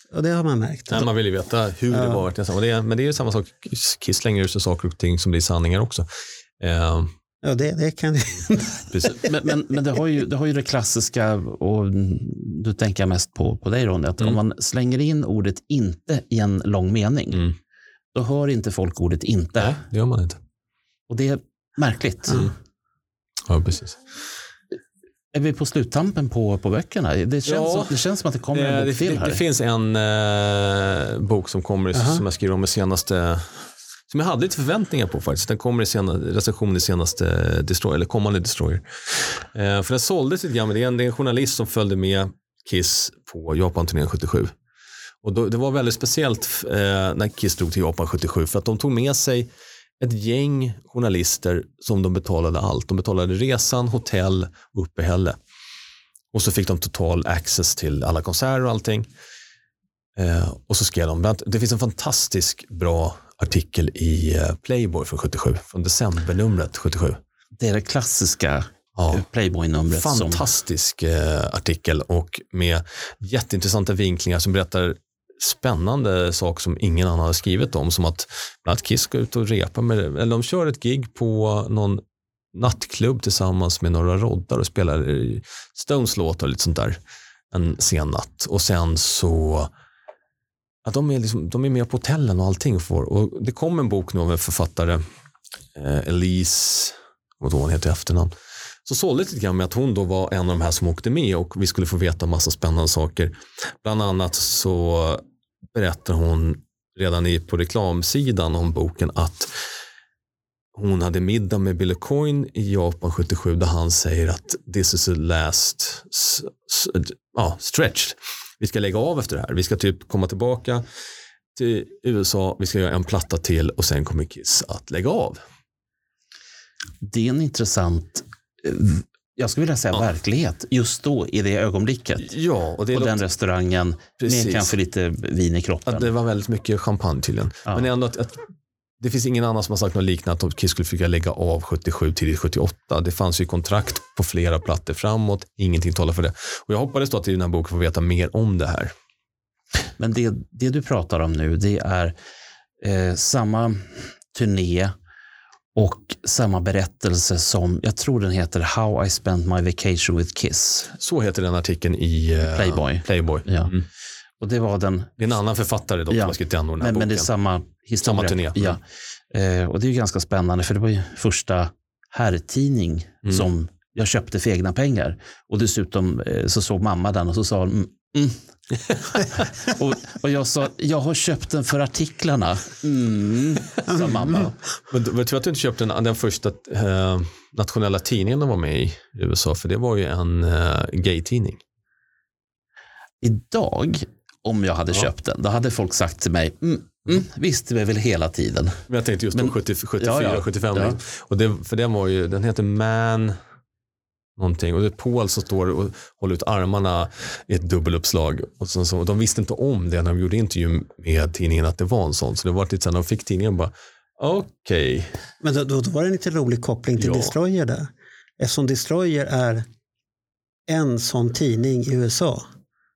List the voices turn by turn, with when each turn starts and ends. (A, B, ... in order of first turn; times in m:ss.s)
0:00.1-0:01.1 A
0:00.9-0:06.1 B
0:01.9-0:02.2 A
0:06.6-0:07.1 B
0:07.4-0:09.2 A
0:08.9-0:09.2 B
0:09.2-0:17.5 C
0:18.1-0:19.8 C
0:19.6-0:20.4 B
0:21.1-0:22.5 C
0:23.4-0:24.0 B
0:25.3-0:29.4 C
0:27.4-0:44.5 B
0:31.9-0:32.2 A
0:45.2-0:55.4 B
0:56.3-0:59.1 B
1:00.2-1:07.2 B
1:07.6-1:10.5 C
1:09.0-1:09.2 B
1:09.9-1:22.0 B
1:22.5-1:27.0 B
1:27.5-1:29.7 B
1:30.8-1:35.0 B
1:35.7-1:38.3 B
1:38.8-1:49.5 B
1:50.7-2:00.8 B
2:01.5-2:05.4 B
2:07.0-2:12.3 C
2:12.2-2:13.2 B
2:12.9-2:16.1 C
2:14.2-2:14.7 B
2:15.8-2:18.4 B
2:19.0-2:28.9 B
2:30.0-2:32.2 C
2:32.8-2:34.9 C
2:35.7-2:40.9 C
2:41.0-2:43.8 B
2:42.4-2:43.7 C
2:44.4-2:45.1 C
2:45.2-2:47.3 B
2:46.1-2:58.4 C
2:48.0-2:48.8 B
2:59.1-3:04.5 C
3:03.9-3:04.5 A
3:04.9-3:11.6 B
3:13.2-3:21.0 C
3:18.9-3:23.4 B
3:24.4-3:35.1 B
3:35.4-3:39.6 A
3:37.0-3:37.3 B
3:40.7-3:42.4 A